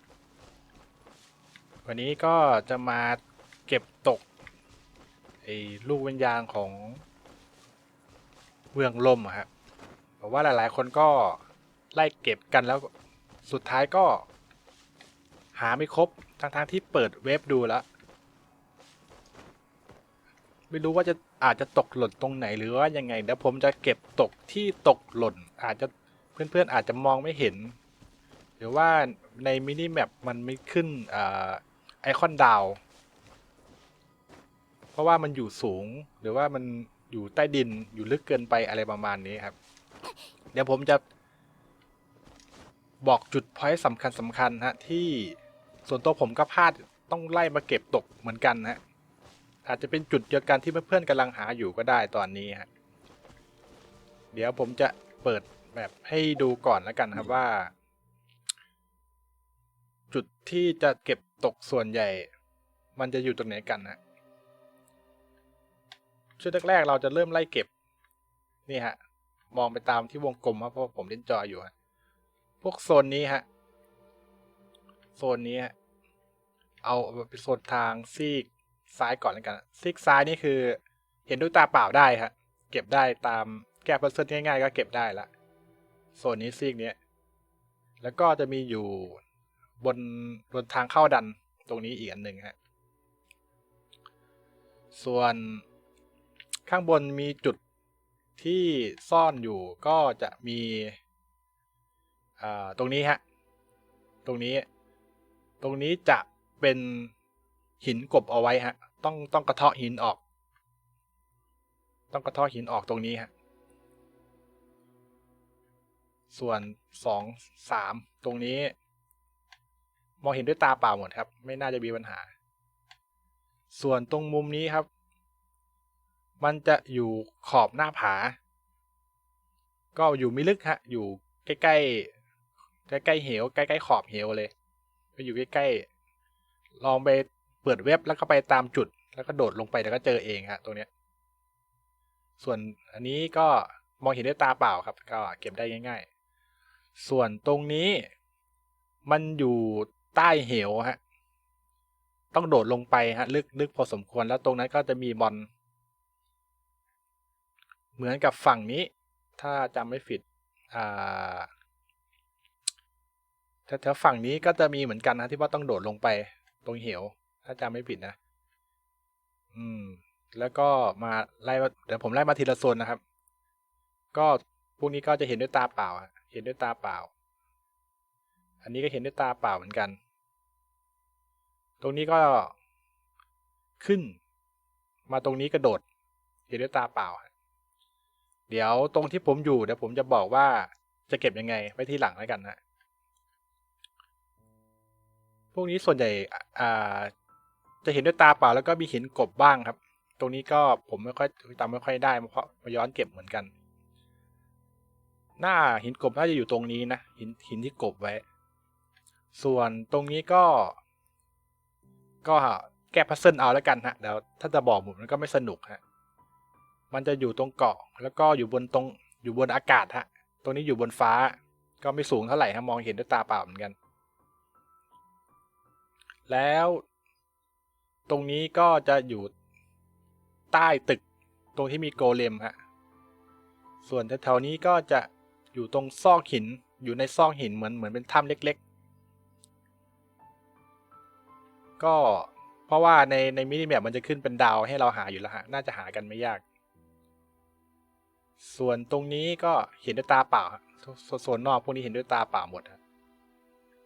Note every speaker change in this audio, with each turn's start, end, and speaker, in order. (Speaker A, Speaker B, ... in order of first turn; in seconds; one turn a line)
Speaker A: 1.8-4.2
Speaker A: 5.4-7.0
Speaker A: 8.7-9.5
Speaker A: 10.2-11.4
Speaker A: 11.9-12.9
Speaker A: 13.4-14.3
Speaker A: 15.5-17.8
Speaker A: 20.7-27.8
Speaker A: 28.6-32.8
Speaker A: 35.0-39.5
Speaker A: 40.5-41.0
Speaker A: 43.0-48.8
Speaker A: 49.7-52.7
Speaker A: 54.3-57.7
Speaker A: 60.1-62.3
Speaker A: 63.0-64.0
Speaker A: 66.4-67.7
Speaker A: 68.7-69.0
Speaker A: 69.5-71.7
Speaker A: 72.6-73.5
Speaker A: 75.2-75.7
Speaker A: 76.8-85.3
Speaker A: 86.2-87.0
Speaker A: 88.0-89.2
Speaker A: 89.8-92.6
Speaker A: 94.9-95.6
Speaker A: 96.7-97.6
Speaker A: 98.4-101.0
Speaker A: 102.4-103.2
Speaker A: 104.2-104.7
Speaker A: 105.6-107.1
Speaker A: 107.8-110.2
Speaker A: 112.1-113.3
Speaker A: 116.3-118.7
Speaker A: 120.2-122.3
Speaker A: 123.7-124.9
Speaker A: 126.4-128.4
Speaker A: 129.9-132.1
Speaker A: 132.9-134.5
Speaker A: 135.2-135.8
Speaker A: 136.8-140.9
Speaker A: 142.4-146.1
Speaker A: 147.0-148.1
Speaker A: 149.0-151.0
Speaker A: 152.3-155.5
Speaker A: 157.9-161.5
Speaker A: 163.7-168.2
Speaker A: 169.5-173.0
Speaker A: 174.1-177.1
Speaker A: 178.6-180.0
Speaker A: 181.8-182.5
Speaker A: 183.8-184.2
Speaker A: 185.1-185.8
Speaker A: 186.5-187.3
Speaker A: 188.5-192.6
Speaker A: 195.5-197.1
Speaker A: 197.8-203.5
Speaker A: 205.4-208.2
Speaker A: 209.3-210.8
Speaker A: 212.2-215.8
Speaker A: 216.9-223.8
Speaker A: 226.3-226.8
Speaker A: 228.1-229.3
Speaker A: 230.5-231.0
Speaker A: 231.6-232.6
Speaker A: 233.8-238.6
Speaker A: 241.8-246.4
Speaker A: 248.4-252.8